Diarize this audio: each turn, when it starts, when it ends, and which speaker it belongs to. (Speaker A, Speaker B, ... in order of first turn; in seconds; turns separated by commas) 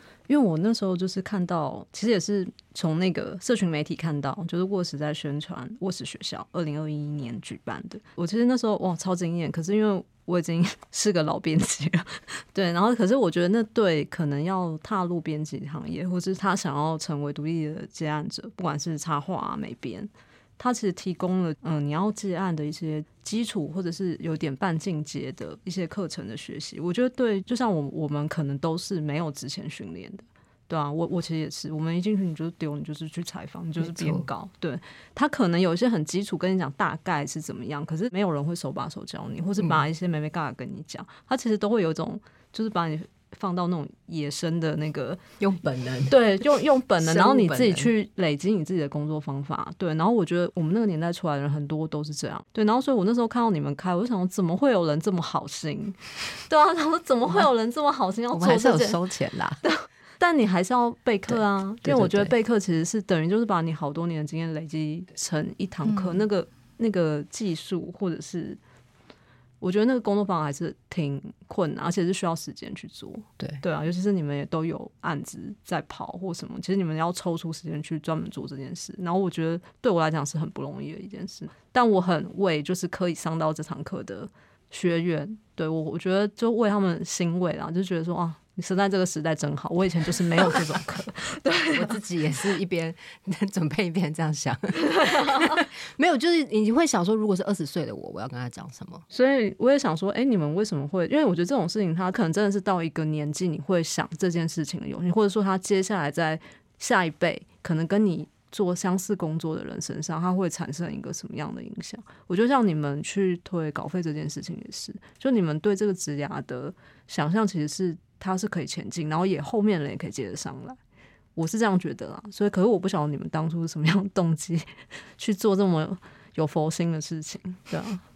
Speaker A: 0.3-45.2, Speaker B: 33.8-34.2, Speaker B: 45.4-46.2, Speaker A: 46.1-59.0, Speaker B: 47.0-47.9, Speaker B: 58.3-59.6, Speaker A: 59.6-68.6, Speaker B: 61.3-62.3, Speaker A: 69.6-91.9, Speaker B: 91.7-99.0, Speaker A: 94.9-95.5, Speaker A: 99.1-120.8, Speaker A: 121.3-128.0